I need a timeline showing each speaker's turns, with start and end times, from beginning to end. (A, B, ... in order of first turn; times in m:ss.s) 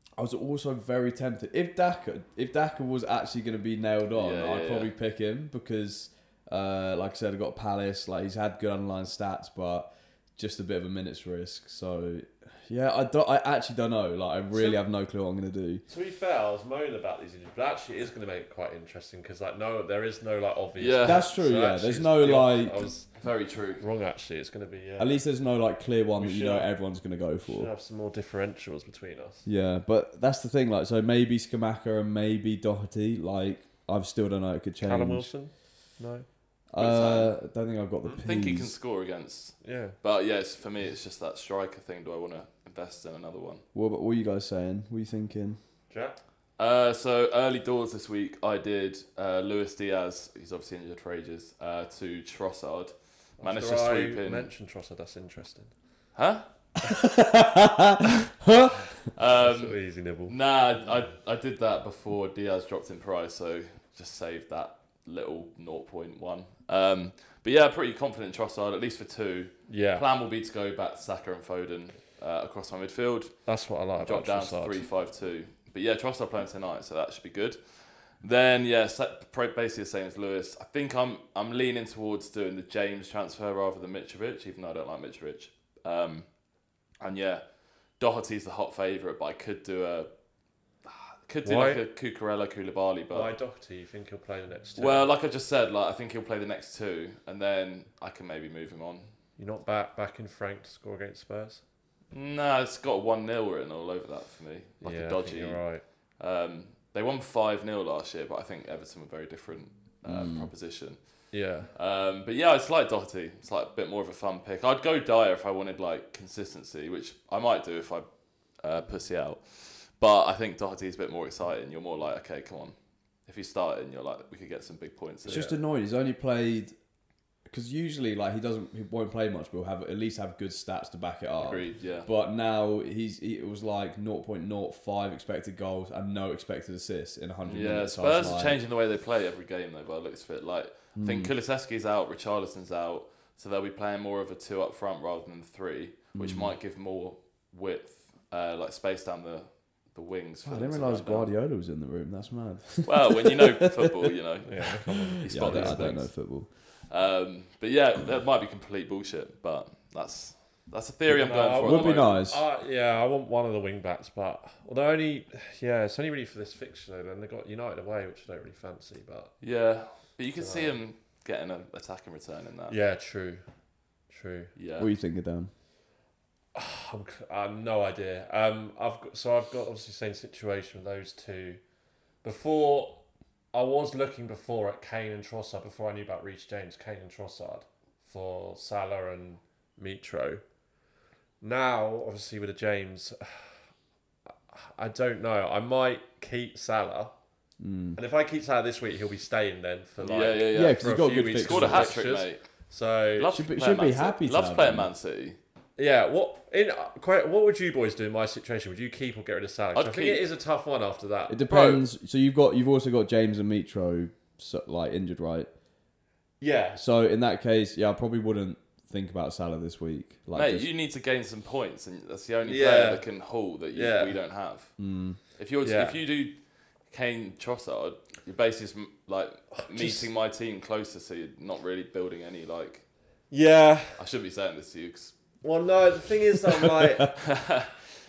0:00.2-0:15.8 A
0:04.1-0:04.9 B
0:14.5-0:14.8 C
0:15.9-0:25.2 C
0:20.8-0:21.2 B
0:21.0-0:22.8 A
0:23.2-0:23.8 B
0:25.0-0:27.7 A
0:26.2-0:26.7 C
0:27.4-0:29.5 C
0:29.4-0:35.3 A
0:34.8-0:36.2 C
0:36.7-0:38.7 A
0:36.8-0:37.3 B
0:38.2-0:43.6 B
0:39.6-0:40.0 C
0:43.7-0:45.6 A
0:45.9-0:46.2 C
0:46.6-0:54.5 B
0:53.4-0:55.7 C
0:56.1-0:56.4 B
0:56.8-0:58.8 A
0:59.1-1:26.3 B
0:59.2-1:01.0 C
1:09.7-1:10.0 C
1:13.4-1:14.8 C
1:27.0-1:27.4 B
1:28.0-1:30.1 B
1:30.9-1:33.3 B
1:31.4-1:31.8 C
1:33.1-1:35.1 C
1:34.8-1:39.1 B
1:39.4-1:41.6 C
1:42.1-1:45.7 B
1:44.8-1:45.8 C
1:46.2-1:58.1 B
1:50.0-1:50.5 A
1:51.3-1:51.7 C
1:58.6-2:05.5 B
2:05.2-2:05.5 C
2:05.3-2:06.7 A
2:07.5-2:18.6 A
2:11.4-2:12.1 B
2:17.4-2:31.3 B
2:20.9-2:21.3 A
2:26.1-2:26.5 A
2:30.4-2:33.8 A
2:32.8-2:42.2 B
2:34.4-2:35.8 C
2:34.6-2:36.5 A
2:41.1-2:49.4 C
2:41.6-2:42.4 A
2:49.4-2:52.8 B
2:50.4-2:50.8 C
2:52.7-2:53.4 C
2:54.1-2:54.5 C
2:54.5-2:54.9 B
2:54.8-2:55.5 A
2:56.5-3:01.6 C
3:02.2-3:03.0 C
3:03.5-3:10.4 C
3:11.4-3:13.6 C
3:14.5-3:17.1 C
3:17.6-3:18.0 A
3:18.0-3:23.3 C
3:20.0-3:22.4 B
3:20.5-3:22.0 A
3:23.2-3:25.4 B
3:23.3-3:24.9 A
3:25.8-3:31.4 C
3:29.7-3:30.3 B
3:31.3-3:35.5 A
3:31.5-3:31.8 B
3:36.4-3:36.8 C
3:36.8-3:40.7 A
3:40.3-3:44.7 B
3:42.5-3:43.0 C
3:43.7-3:44.2 C
3:44.8-3:45.2 A
3:45.3-3:52.8 B
3:45.6-3:46.0 C
3:49.6-3:50.1 C
3:53.3-3:54.0 C
3:54.0-3:55.1 B
3:55.4-3:57.2 C
3:57.2-3:57.8 B